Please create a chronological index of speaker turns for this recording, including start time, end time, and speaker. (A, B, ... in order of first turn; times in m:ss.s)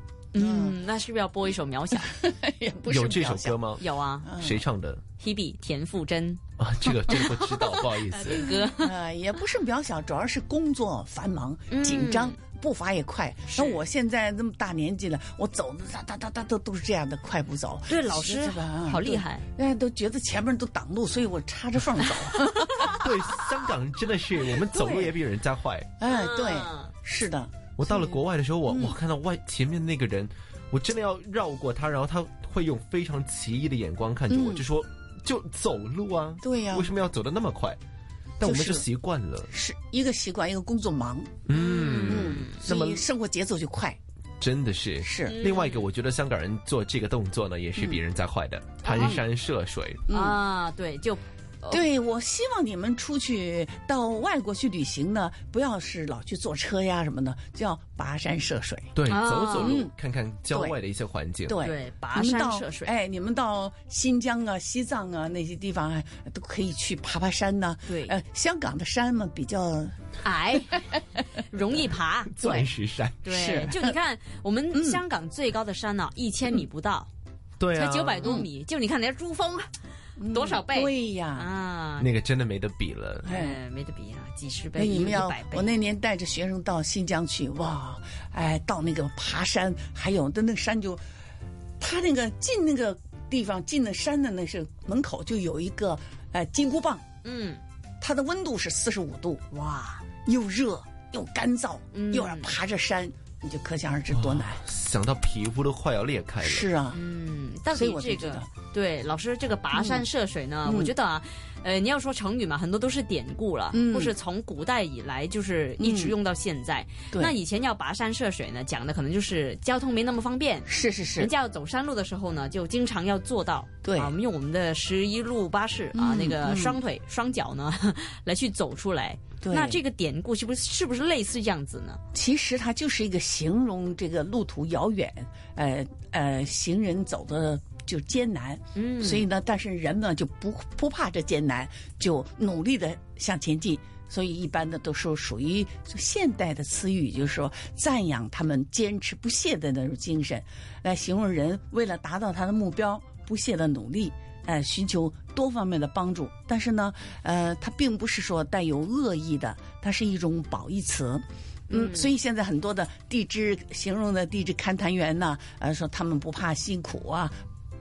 0:00.3-0:02.1 A
0:00.4-0:00.8 B
0:02.0-0:03.7 B
0:02.9-0:05.0 C
0:03.8-0:04.4 A
0:04.2-0:04.6 B
0:05.2-0:06.4 A
0:06.6-0:08.5 C
0:07.1-0:09.0 A
0:08.3-0:22.9 B
0:11.7-0:12.4 A
0:13.5-0:13.8 A
0:17.9-0:19.4 A
0:22.9-0:25.9 C
0:24.6-0:25.2 B
0:26.0-0:29.0 B
0:26.1-0:26.9 A
0:27.8-0:37.8 C
0:34.3-0:34.6 B
0:36.4-0:36.9 B
0:38.4-0:39.5 C
0:38.4-0:38.9 B
0:39.5-0:41.4 B
0:41.5-0:43.0 C
0:41.5-0:42.6 A
0:42.1-0:44.0 B
0:44.4-0:50.0 C
0:45.0-0:45.4 B
0:45.3-0:45.8 A
0:48.8-0:49.2 A
0:50.1-0:50.4 B
0:50.1-0:51.8 A
0:51.7-0:59.0 B
0:59.0-1:01.6 C
0:59.1-0:59.7 A
0:59.6-0:59.9 B
1:00.5-1:00.8 B
1:01.5-1:10.0 B
1:01.6-1:02.9 A
1:07.9-1:08.2 A
1:10.2-1:12.7 A
1:12.3-1:13.2 C
1:13.2-1:17.1 A
1:13.3-1:14.0 B
1:14.7-1:15.0 B
1:17.6-1:18.3 C
1:17.8-1:19.7 A
1:20.2-1:21.5 B
1:20.2-1:22.1 A
1:22.0-1:23.3 C
1:23.2-1:23.6 B
1:23.3-1:25.7 A
1:24.8-1:31.0 B
1:31.8-1:37.0 B
1:37.2-1:37.6 A
1:38.0-1:39.4 B
1:39.5-1:40.1 A
1:40.2-1:44.6 B
1:41.9-1:42.5 A
1:44.1-1:46.7 C
1:46.4-1:47.0 B
1:46.9-2:12.0 A
1:47.7-1:48.5 B
1:49.7-1:50.1 B
1:50.6-1:50.9 B
1:53.7-1:54.2 B
1:55.8-1:56.2 B
2:00.7-2:01.3 B
2:03.8-2:04.1 B
2:05.9-2:06.8 B
2:09.4-2:09.8 B
2:12.1-2:47.4 B
2:18.8-2:19.3 A
2:41.7-2:42.1 A